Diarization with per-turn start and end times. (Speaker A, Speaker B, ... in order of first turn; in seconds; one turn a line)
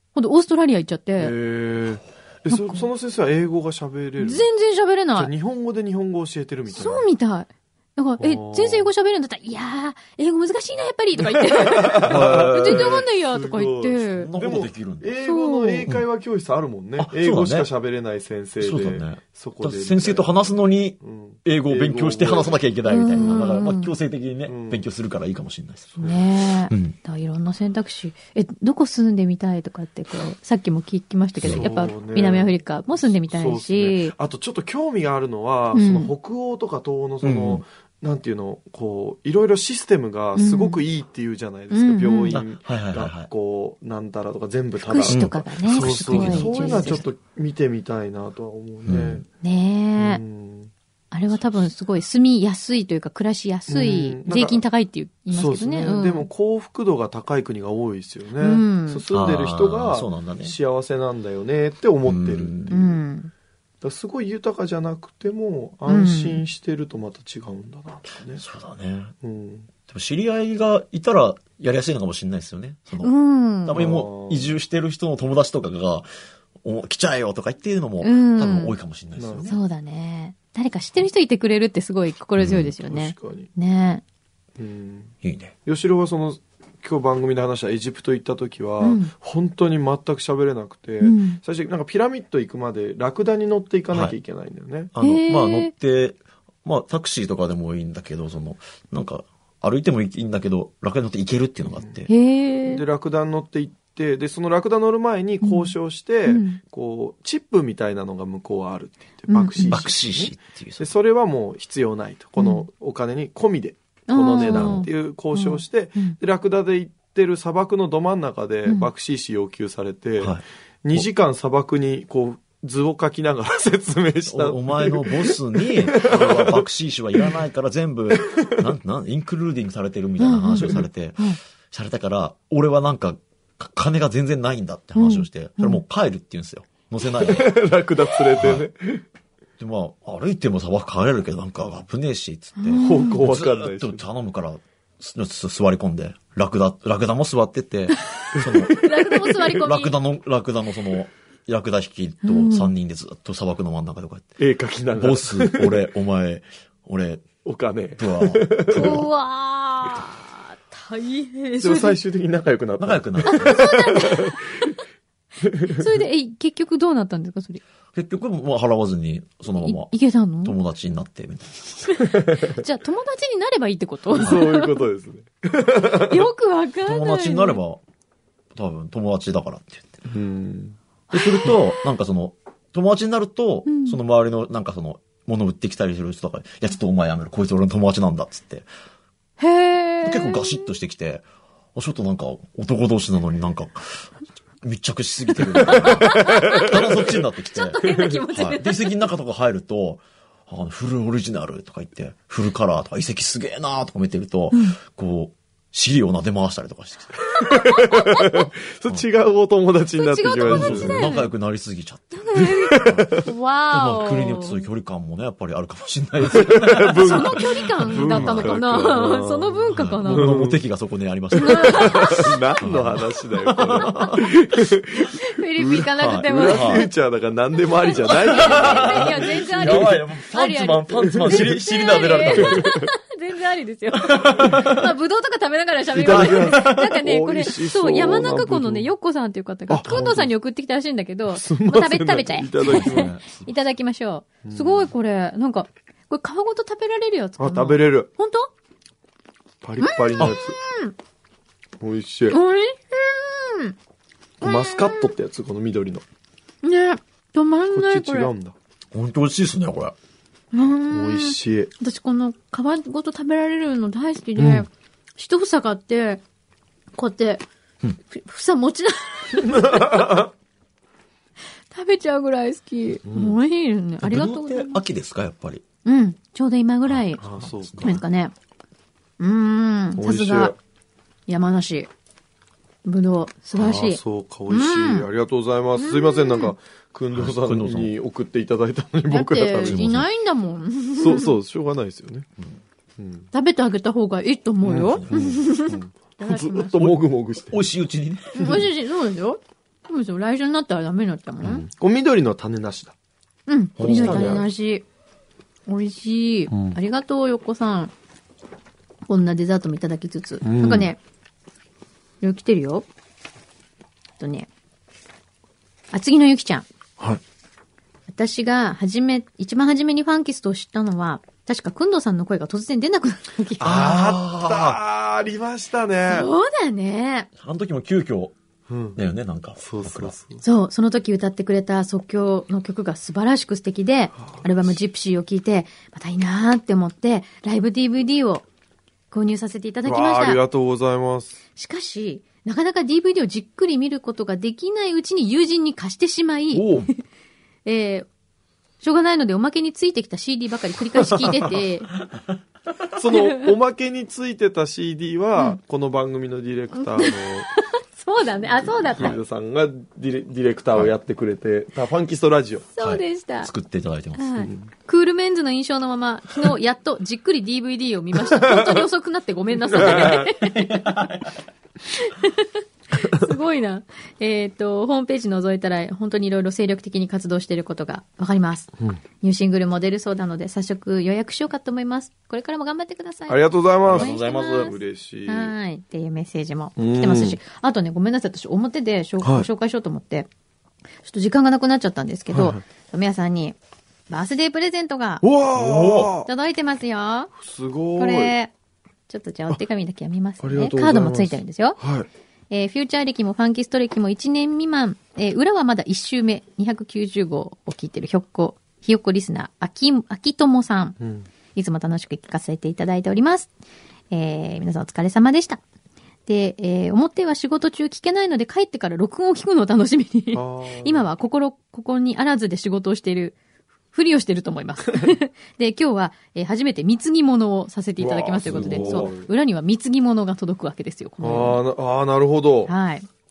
Speaker A: 0.1-1.4
Speaker B: 1.2-4.5
Speaker A: 2.5-2.9
Speaker A: 4.2-5.3
Speaker B: 5.2-7.1
Speaker A: 6.7-14.3
Speaker B: 8.2-8.9
Speaker B: 11.5-22.6
Speaker C: 12.1-13.1
Speaker C: 14.1-15.2
Speaker A: 15.2-15.9
Speaker C: 17.0-17.7
Speaker C: 18.6-26.0
Speaker A: 22.9-23.9
Speaker B: 24.5-24.9
Speaker B: 26.0-26.2
Speaker A: 26.0-34.1
Speaker C: 31.4-31.7
Speaker B: 31.5-49.3
Speaker A: 35.7-36.1
Speaker C: 37.2-37.6
Speaker A: 40.4-40.8
Speaker A: 41.7-42.4
Speaker C: 42.3-43.3
Speaker A: 44.8-47.0
Speaker C: 45.1-47.0
Speaker C: 48.9-49.2
Speaker A: 49.4-50.2
Speaker B: 50.0-50.7
Speaker A: 51.1-56.3
Speaker B: 53.7-54.6
Speaker B: 55.3-62.8
Speaker A: 58.4-59.0
Speaker C: 59.1-60.6
Speaker C: 62.0-62.8
Speaker A: 62.7-63.3
Speaker B: 63.8-68.4
Speaker A: 65.9-66.4
Speaker C: 68.4-69.1
Speaker B: 69.2-69.7
Speaker C: 69.9-73.1
Speaker A: 73.0-73.9
Speaker C: 73.7-76.1
Speaker B: 73.7-74.5
Speaker C: 76.6-79.6
Speaker A: 78.0-78.8
Speaker B: 79.2-79.6
Speaker A: 79.5-84.0
Speaker C: 82.4-82.7
Speaker B: 82.8-83.5
Speaker B: 84.6-85.1
Speaker C: 85.2-85.6
Speaker B: 85.7-94.9
Speaker A: 88.8-89.1
Speaker A: 91.0-91.4
Speaker C: 93.9-94.2
Speaker C: 95.0-102.1
Speaker A: 95.0-95.7
Speaker A: 102.1-102.8
Speaker B: 102.7-126.7
Speaker A: 105.4-105.7
Speaker A: 106.3-106.6
Speaker A: 109.3-109.9
Speaker C: 109.7-110.9
Speaker A: 112.4-112.7
Speaker A: 114.1-116.2
Speaker C: 114.4-114.8
Speaker C: 120.2-121.1
Speaker C: 124.3-137.6
Speaker B: 128.2-128.5
Speaker A: 130.2-131.4
Speaker A: 135.0-135.8
Speaker B: 137.2-139.0
Speaker C: 138.3-138.7
Speaker C: 139.6-154.3
Speaker A: 142.6-143.2
Speaker B: 142.8-144.0
Speaker A: 148.2-149.9
Speaker A: 152.2-152.7
Speaker B: 154.4-155.8
Speaker C: 155.0-157.3
Speaker B: 157.4-159.0
Speaker C: 158.0-159.1
Speaker A: 158.7-162.0
Speaker B: 161.6-164.4
Speaker C: 162.8-163.8
Speaker A: 163.3-164.4
Speaker B: 165.4-165.9
Speaker A: 165.7-167.6
Speaker C: 167.9-172.0
Speaker A: 169.6-170.6
Speaker A: 171.9-174.8
Speaker B: 174.1-176.2
Speaker C: 174.2-174.4
Speaker A: 176.0-177.6
Speaker C: 176.8-177.8
Speaker C: 178.6-179.9
Speaker B: 180.1-180.8
Speaker A: 181.1-181.6
Speaker C: 181.1-188.7
Speaker A: 183.7-184.0
Speaker A: 189.4-190.7
Speaker C: 190.0-194.1
Speaker C: 194.6-207.4
Speaker A: 195.7-199.0
Speaker B: 196.1-196.7
Speaker A: 204.5-204.8
Speaker B: 207.4-211.0
Speaker A: 207.5-208.5
Speaker A: 210.0-211.3
Speaker C: 210.4-218.8
Speaker A: 212.1-214.6
Speaker B: 212.7-213.2
Speaker B: 216.2-220.6
Speaker A: 217.0-220.4
Speaker C: 219.7-224.3
Speaker A: 221.3-222.6
Speaker B: 221.4-230.0
Speaker A: 225.0-226.9
Speaker C: 226.0-226.9
Speaker A: 227.8-248.5
Speaker C: 228.2-232.8
Speaker B: 231.2-231.5
Speaker B: 232.4-232.8
Speaker C: 234.0-234.8
Speaker B: 235.9-238.9
Speaker C: 236.0-236.9
Speaker B: 239.7-240.3
Speaker B: 241.3-243.1
Speaker C: 242.6-243.3
Speaker B: 244.4-244.9
Speaker B: 247.4-248.1
Speaker B: 249.6-250.6
Speaker A: 249.8-250.9
Speaker B: 251.8-252.4
Speaker A: 252.3-253.8
Speaker A: 254.4-255.1
Speaker B: 254.4-256.0
Speaker A: 256.6-258.3
Speaker B: 257.7-258.6
Speaker C: 258.9-259.9
Speaker A: 260.5-266.2
Speaker B: 260.9-261.7
Speaker B: 264.4-264.7
Speaker A: 266.9-267.4
Speaker A: 268.1-270.2
Speaker B: 269.4-270.2
Speaker A: 271.7-274.8
Speaker B: 273.1-273.4
Speaker C: 274.0-275.6
Speaker A: 275.9-277.2
Speaker C: 276.9-278.0
Speaker B: 277.2-278.0
Speaker A: 277.8-278.3
Speaker A: 279.2-280.6
Speaker B: 280.0-280.6
Speaker A: 281.3-281.9
Speaker A: 282.9-285.1
Speaker B: 283.6-289.9
Speaker A: 285.8-286.5
Speaker C: 287.1-287.9
Speaker A: 289.1-291.3
Speaker C: 289.6-290.1
Speaker B: 291.0-292.3
Speaker B: 293.0-293.3
Speaker A: 293.3-296.8
Speaker B: 294.6-297.6
Speaker C: 294.8-295.4
Speaker C: 296.8-298.7
Speaker A: 298.4-301.6
Speaker B: 301.4-302.9
Speaker A: 303.5-304.9
Speaker C: 303.8-304.5
Speaker B: 303.8-304.5
Speaker A: 305.7-307.9
Speaker B: 306.5-306.8
Speaker A: 309.1-311.0
Speaker B: 310.4-310.9
Speaker A: 312.2-312.9
Speaker A: 314.2-314.5
Speaker A: 315.9-316.7
Speaker A: 318.1-323.8
Speaker C: 323.6-324.8
Speaker B: 323.6-326.3
Speaker A: 326.1-327.3
Speaker C: 327.4-328.4
Speaker B: 328.7-329.0
Speaker C: 328.9-330.2
Speaker B: 329.6-330.4
Speaker A: 330.4-338.4
Speaker B: 334.2-334.7
Speaker A: 339.1-340.4
Speaker B: 339.9-341.4
Speaker A: 341.6-346.8
Speaker C: 346.5-346.9
Speaker A: 347.6-348.1
Speaker A: 348.8-351.9
Speaker B: 352.9-357.5
Speaker A: 353.1-353.5
Speaker A: 356.8-359.2
Speaker B: 358.6-362.7
Speaker A: 362.8-363.5
Speaker C: 362.8-364.4
Speaker A: 364.2-370.9
Speaker B: 364.4-364.7
Speaker B: 368.3-368.6
Speaker B: 369.8-370.3
Speaker C: 369.8-371.4
Speaker A: 372.0-390.3
Speaker B: 383.3-385.5
Speaker C: 383.8-384.7
Speaker B: 386.8-387.4
Speaker B: 389.2-389.5
Speaker A: 391.0-393.6
Speaker B: 392.3-392.6
Speaker A: 394.1-395.2
Speaker B: 395.2-396.3
Speaker C: 395.5-396.1
Speaker A: 396.2-397.3
Speaker B: 397.4-398.3
Speaker A: 398.0-398.5
Speaker A: 399.1-401.8
Speaker B: 400.4-402.1
Speaker A: 402.5-411.0
Speaker B: 411.0-411.3
Speaker A: 411.6-413.5
Speaker A: 414.1-415.6
Speaker A: 416.3-423.4
Speaker B: 420.3-421.1
Speaker A: 423.9-431.6
Speaker B: 428.0-429.3
Speaker C: 428.4-429.2
Speaker B: 431.2-432.7
Speaker A: 432.7-433.1